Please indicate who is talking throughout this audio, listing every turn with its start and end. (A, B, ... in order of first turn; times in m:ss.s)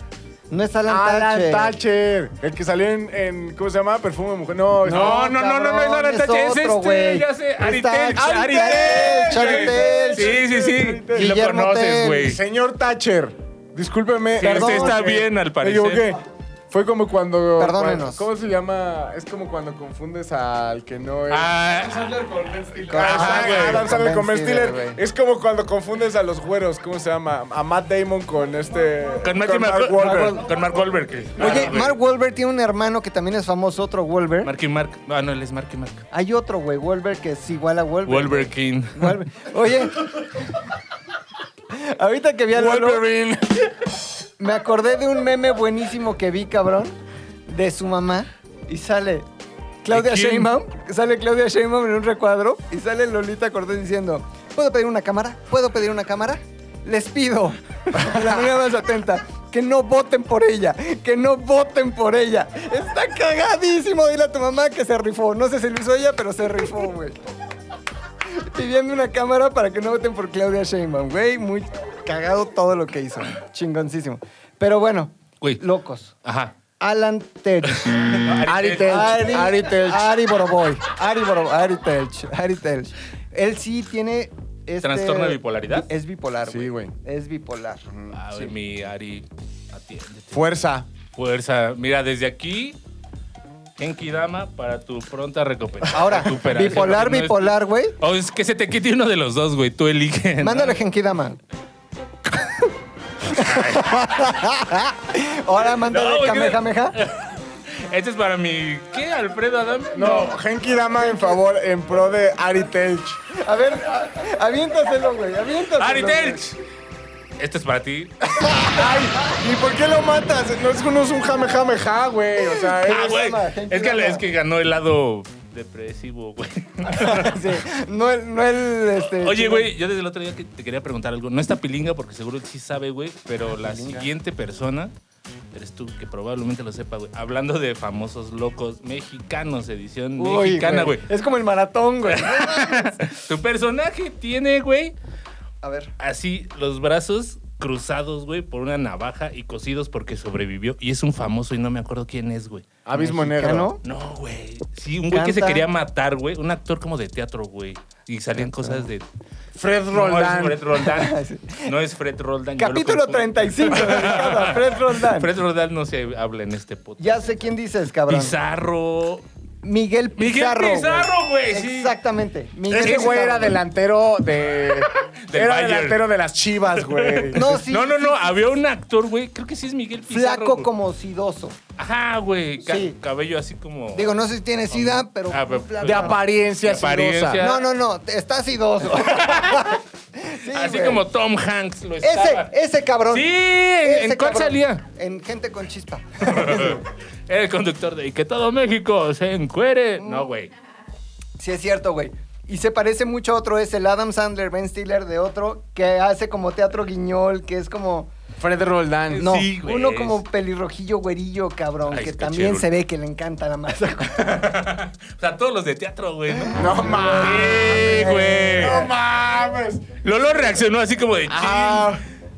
0:00.5-0:01.7 A
0:00.9-0:05.3 B
0:04.8-0:10.4 A
0:04.9-0:12.4 C
0:08.1-0:21.5 B
0:11.1-0:12.3 A
0:14.4-0:16.0 C
0:14.4-0:15.2 A
0:17.6-0:18.3 A
0:21.3-0:23.8 C
0:22.8-0:30.4 B
0:22.9-0:25.0 A
0:29.2-0:32.0 C
0:31.4-0:34.5 A
0:34.4-0:36.0 C
0:36.1-0:40.3 A
0:38.1-0:39.2 C
0:41.7-0:43.0 A
0:42.5-0:43.9 B
0:44.4-0:46.9 A
0:47.5-0:49.2 A
0:49.8-1:07.2 A
0:49.9-0:50.5 C
1:08.3-1:16.1 A
1:16.2-1:16.5 C
1:16.8-1:28.5 A
1:17.7-1:19.2 C
1:18.4-1:20.1 B
1:24.8-1:25.9 C
1:26.4-1:26.9 B
1:28.1-1:30.5 C
1:30.3-1:30.9 B
1:31.1-1:32.8 C
1:33.8-1:40.8 C
1:35.9-1:38.0 A
1:40.4-1:41.4 A
1:43.2-1:47.0 A
1:43.3-1:44.3 C
1:45.9-1:50.4 C
1:49.9-1:53.2 B
1:53.3-1:56.4 A
1:55.8-1:56.6 C
1:57.4-1:58.2 C
1:58.4-1:58.7 A
1:58.6-2:03.2 B
2:02.7-2:04.2 A
2:02.8-2:07.6 C
2:06.8-2:09.7 A
2:09.0-2:14.9 C
2:13.6-2:14.1 A
2:15.5-2:21.0 C
2:20.2-2:23.1 A
2:22.0-2:24.9 C
2:25.6-2:25.9 A
2:26.0-2:33.1 C
2:32.8-2:33.7 B
2:33.2-2:33.8 A
2:33.8-2:39.0 C
2:35.1-2:35.6 A
2:39.5-2:40.6 B
2:39.9-2:47.4 C
2:40.8-2:41.7 A
2:42.6-2:45.3 A
2:47.0-2:48.3 A
2:48.1-2:49.2 C
2:49.6-2:53.6 A
2:50.2-2:51.9 C
2:52.7-2:57.6 B
2:52.8-2:53.2 C
2:54.8-2:56.0 C
2:56.8-3:00.7 C
2:57.3-2:58.5 A
3:00.1-3:01.6 A
3:01.8-3:07.6 C
3:02.6-3:03.0 A
3:03.9-3:06.2 A
3:05.8-3:07.4 B
3:07.4-3:11.0 A
3:09.0-3:09.7 C
3:10.5-3:12.5 C
3:12.0-3:13.3 A
3:13.1-3:14.8 C
3:13.8-3:16.8 A
3:16.2-3:20.5 C
3:20.0-3:20.3 A
3:21.4-3:28.1 A
3:28.4-3:29.3 B
3:29.1-3:30.2 C
3:29.2-3:34.5 A
3:31.9-3:32.7 C
3:34.2-3:38.9 C
3:36.5-3:38.8 A
3:36.5-3:39.9 B
3:40.0-3:42.0 C
3:41.3-3:42.0 B